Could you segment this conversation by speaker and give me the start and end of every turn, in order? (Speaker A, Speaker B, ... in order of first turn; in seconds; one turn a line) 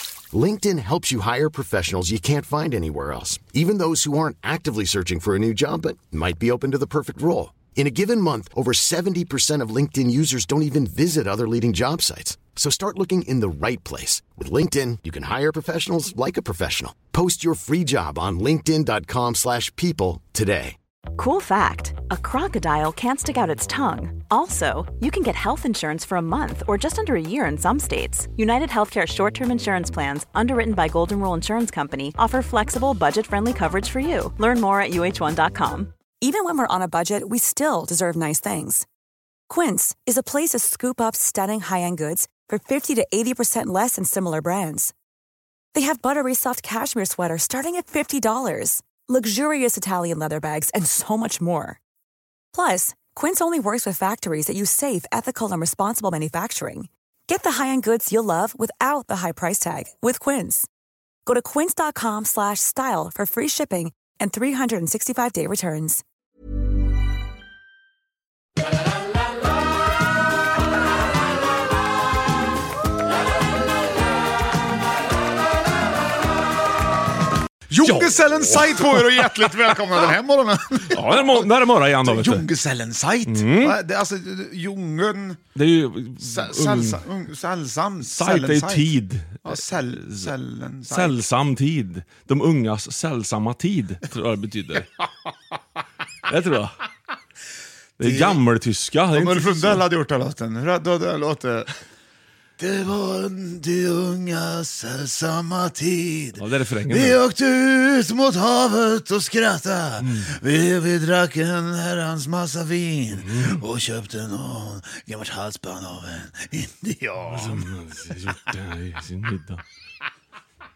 Speaker A: 0.3-20.8
Speaker B: 21.1-35.9
Speaker C: 36.2-38.8
Speaker C: 39.5-44.9
Speaker C: 45.7-51.8
Speaker C: 52.5-60.7
Speaker C: 61.2-66.0
Speaker D: 77.7-85.4
Speaker E: 77.8-79.5
Speaker E: 80.9-82.5
Speaker E: 83.2-83.8
Speaker E: 85.5-87.0
Speaker D: 86.2-91.2
Speaker E: 88.0-90.3
Speaker E: 90.9-94.9
Speaker E: 96.2-96.8
Speaker E: 98.0-99.8
Speaker D: 98.0-98.4
Speaker D: 99.1-101.7
Speaker D: 102.6-117.7
Speaker E: 106.4-107.2
Speaker E: 110.0-110.3
Speaker E: 113.1-113.6
Speaker E: 117.3-119.6